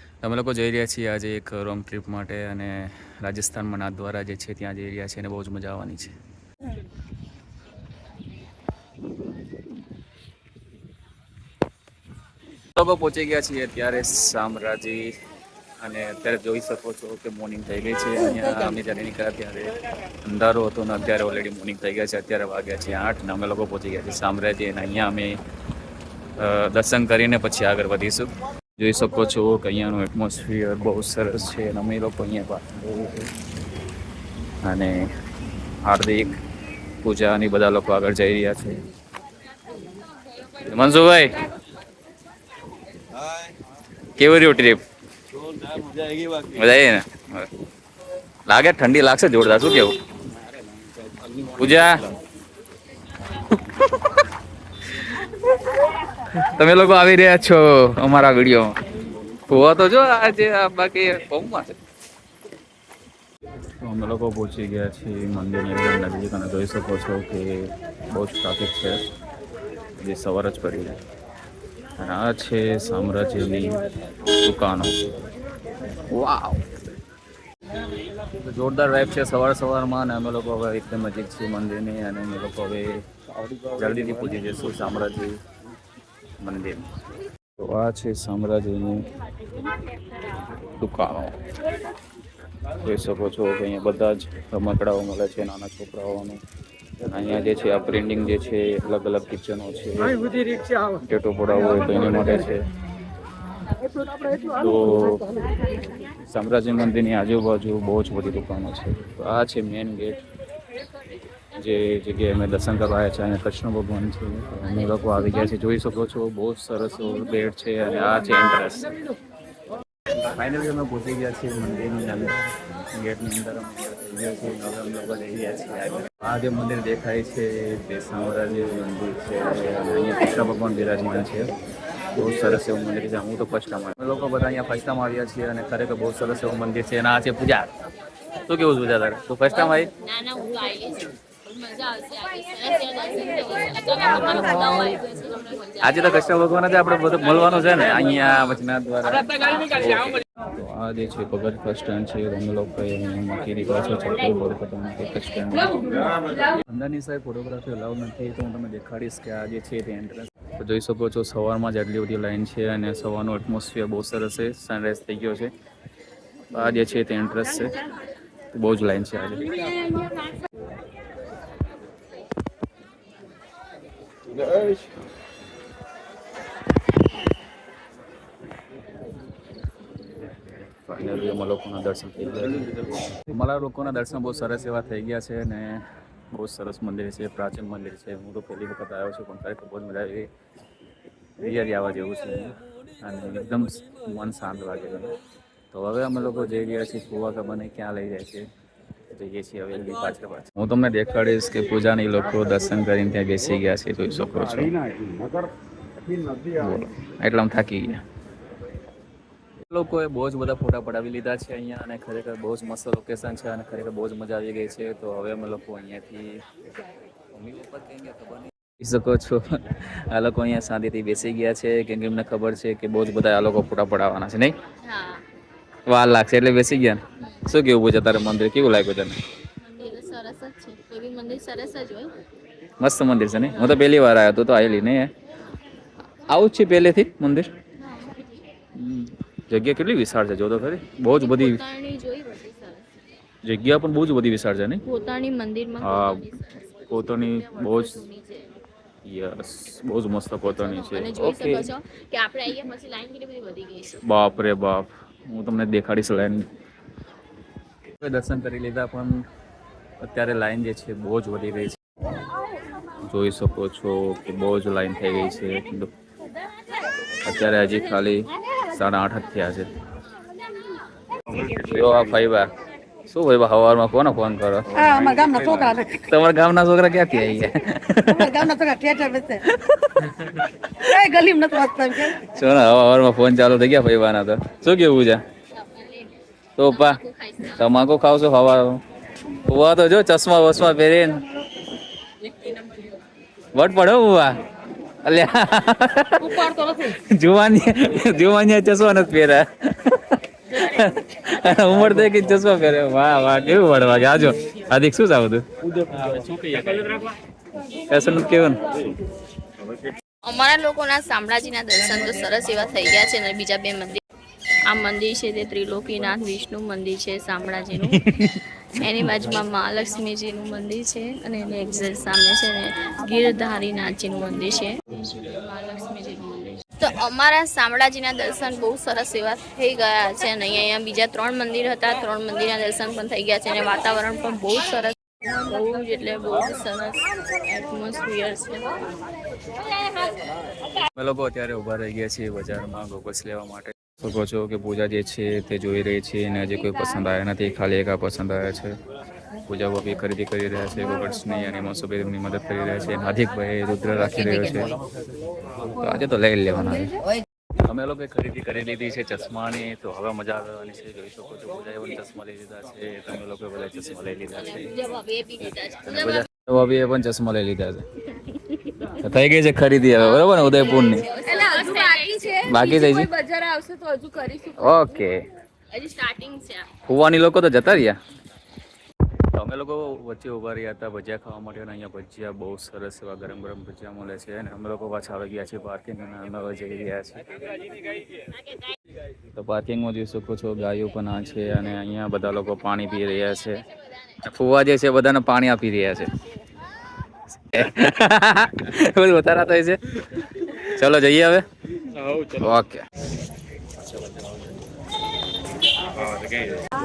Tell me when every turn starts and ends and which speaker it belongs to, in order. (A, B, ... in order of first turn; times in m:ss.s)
0:00.2-0:06.2 A
0:12.8-0:15.1 A
0:15.8-0:25.4 A
0:26.4-0:33.3 A
0:34.6-0:35.1 A
0:35.8-0:36.4 A
0:37.0-0:38.8 A
0:40.5-0:41.3 A
0:44.2-0:44.8 A
0:46.0-0:47.5 A
0:48.5-0:50.0 A
0:51.3-0:52.0 A
0:53.5-0:54.2 A
0:56.2-0:58.8 A
0:59.5-1:01.8 A
1:03.8-1:09.0 A
1:10.0-1:11.0 A
1:12.0-1:15.0 A
1:16.1-1:16.8 A
1:18.3-1:23.0 A
1:23.6-1:25.4 A
1:26.4-1:26.8 A
1:27.6-1:29.1 A
1:30.8-1:31.4 A
1:32.7-1:36.4 A
1:37.1-1:40.2 A
1:40.9-1:42.7 A
1:44.4-1:45.3 A
1:46.3-1:50.2 A
1:51.5-1:58.9 A
2:00.3-2:02.4 A
2:02.9-2:11.5 A
2:12.1-2:17.7 A
2:18.5-2:19.9 A
2:19.9-2:26.2 B
2:25.8-2:35.9 A
2:36.6-2:45.5 A
2:46.5-2:47.8 A
2:48.5-2:49.6 A
3:00.4-3:10.3 A
3:11.4-3:15.1 A
3:15.7-3:18.5 A
3:19.1-3:24.8 A
3:26.5-3:28.0 A
3:29.7-3:36.4 A
3:37.3-3:44.5 A
3:44.8-3:45.2 B
3:45.9-3:49.2 A
3:47.2-3:47.5 B
3:49.6-3:52.1 B
3:52.8-3:55.1 A
3:56.3-3:57.5 A
3:57.8-3:58.4 B
3:58.8-4:01.6 A
4:01.1-4:02.9 B
4:03.4-4:04.8 A
4:04.9-4:08.6 B
4:05.8-4:06.2 A
4:06.9-4:08.0 A
4:09.0-4:11.7 A
4:10.5-4:14.0 B
4:14.0-4:16.5 A
4:18.0-4:19.2 A
4:20.0-4:21.8 A
4:23.0-4:25.9 A
4:27.2-4:29.7 A
4:31.3-4:32.5 A
4:33.1-4:38.6 A
4:34.8-4:36.0 C
4:38.1-4:39.4 C
4:39.4-4:40.5 A
4:40.8-4:42.2 C
4:42.1-4:45.2 A
4:45.5-4:46.1 B
4:46.6-4:47.0 A
4:46.7-4:47.6 B
4:47.5-4:48.8 A
4:49.4-4:51.2 A
4:52.2-4:53.0 B
4:53.5-4:54.4 A
4:55.0-5:07.1 A
5:07.9-5:08.7 A
5:10.2-5:14.0 B
5:14.7-5:18.0 B
5:17.9-5:18.9 A
5:18.8-5:38.8 B
5:41.0-5:48.8 A
5:49.5-5:54.7 A
5:55.6-5:56.9 A
5:57.6-6:04.7 A
6:04.4-6:06.3 B
6:05.8-6:07.8 A
6:08.2-6:09.0 B
6:08.9-6:11.1 A
6:10.0-6:14.9 B
6:12.4-6:13.1 A
6:14.6-6:15.2 A
6:15.7-6:16.7 B
6:16.8-6:18.0 A
6:19.3-6:27.3 A
6:29.3-6:33.6 A
6:34.2-6:36.1 A
6:37.3-6:41.5 A
6:42.1-6:42.8 A